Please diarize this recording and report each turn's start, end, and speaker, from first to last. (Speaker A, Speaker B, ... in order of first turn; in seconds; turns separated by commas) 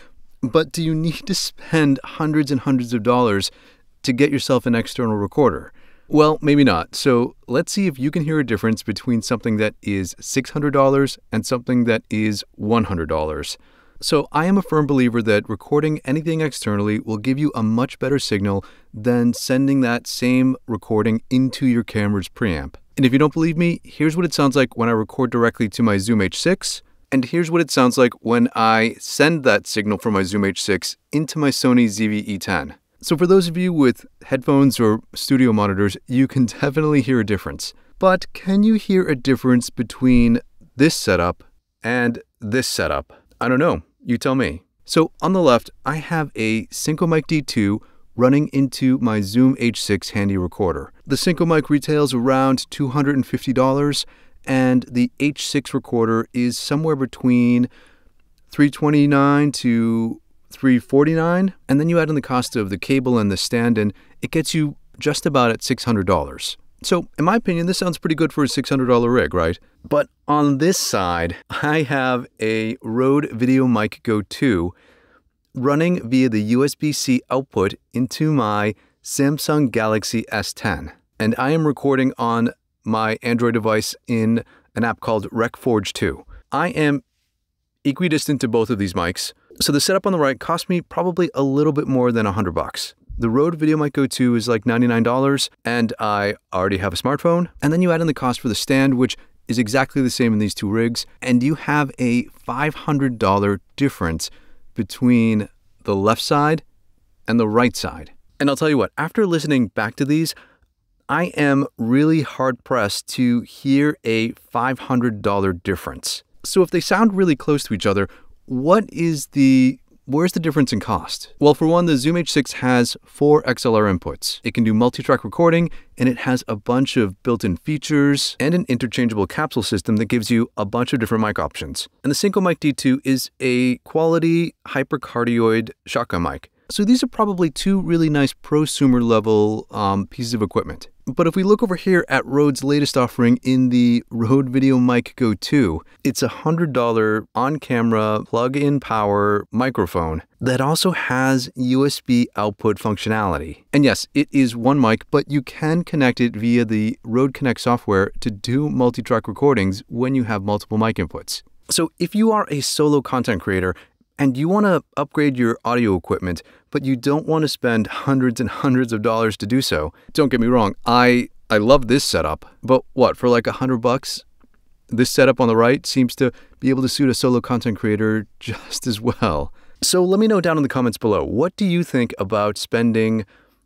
Speaker A: 0.4-3.5, Speaker A: 4.0-57.7, Speaker A: 58.5-74.7, Speaker A: 75.5-87.0, Speaker A: 87.8-106.6, Speaker A: 107.3-110.3, Speaker A: 111.1-174.2, Speaker A: 174.9-183.2